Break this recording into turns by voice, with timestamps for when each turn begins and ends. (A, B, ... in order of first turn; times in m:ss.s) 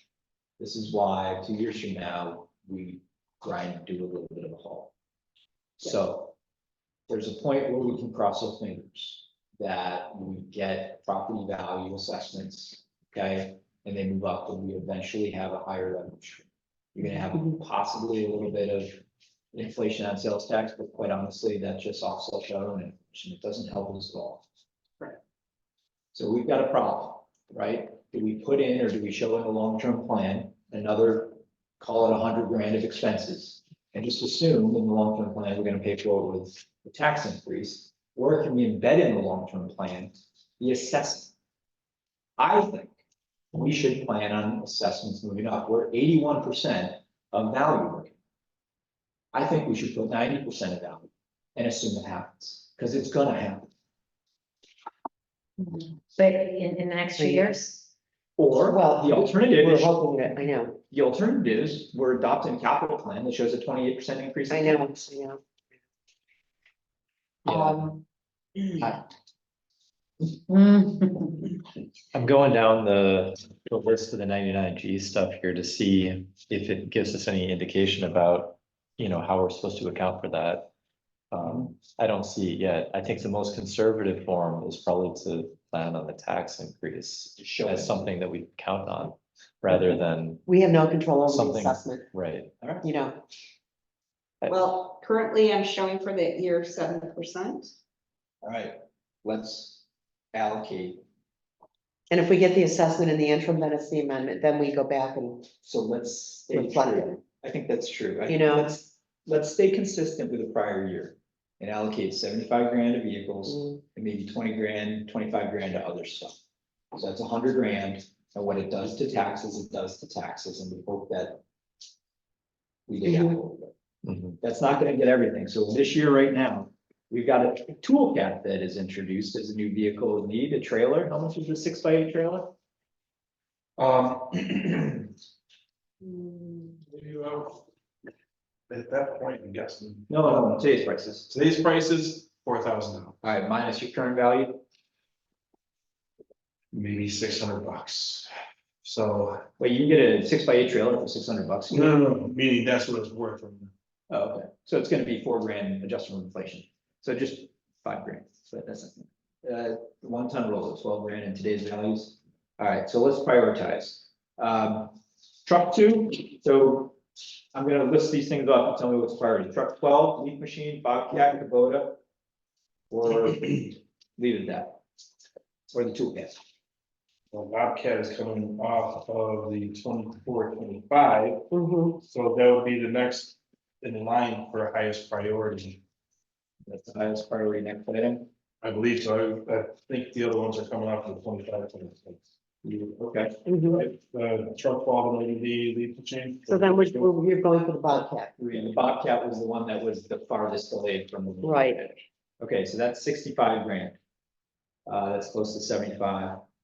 0:00.6-0:04.9 A
0:05.8-0:06.3 A
0:07.1-0:19.0 A
0:19.5-0:24.4 A
0:26.1-0:41.3 A
0:42.4-0:43.0 A
0:43.5-0:48.1 A
0:49.3-0:53.7 A
0:55.7-0:57.9 B
0:57.2-0:57.6 C
0:58.4-1:00.0 A
0:58.7-1:00.8 C
1:00.9-1:04.8 A
1:04.5-1:05.4 C
1:07.4-1:08.0 C
1:10.5-1:11.2 B
1:12.1-1:20.7 D
1:21.3-1:30.5 D
1:27.4-1:28.0 A
1:30.4-1:32.0 C
1:31.2-1:32.5 D
1:32.6-1:32.9 A
1:32.8-1:33.2 C
1:34.5-1:37.7 E
1:38.4-1:41.0 A
1:42.1-1:45.5 C
1:45.6-1:56.3 A
1:46.5-1:47.2 C
1:48.3-1:48.8 C
1:53.5-1:53.8 C
1:56.9-2:01.4 A
2:02.9-2:03.7 A
2:04.3-2:12.5 A
2:13.8-2:15.1 F
2:16.8-2:17.6 F
2:18.7-2:20.1 F
2:20.1-2:21.3 A
2:21.3-2:23.2 F
2:23.2-2:24.6 A
2:26.7-2:28.3 F
2:28.8-2:29.4 F
2:29.6-2:32.0 A
2:31.7-2:33.7 F
2:34.1-2:47.0 A
2:47.5-2:52.0 A
2:52.9-2:54.8 A
2:55.7-2:56.4 A
2:57.3-3:05.8 F
3:01.5-3:02.0 C
3:06.6-3:08.3 A
3:08.6-3:12.2 F
3:12.6-3:13.8 A
3:13.4-3:13.8 C
3:13.7-3:16.9 F
3:16.5-3:18.4 C
3:18.4-3:24.0 A
3:21.4-3:21.8 C
3:24.8-3:26.4 A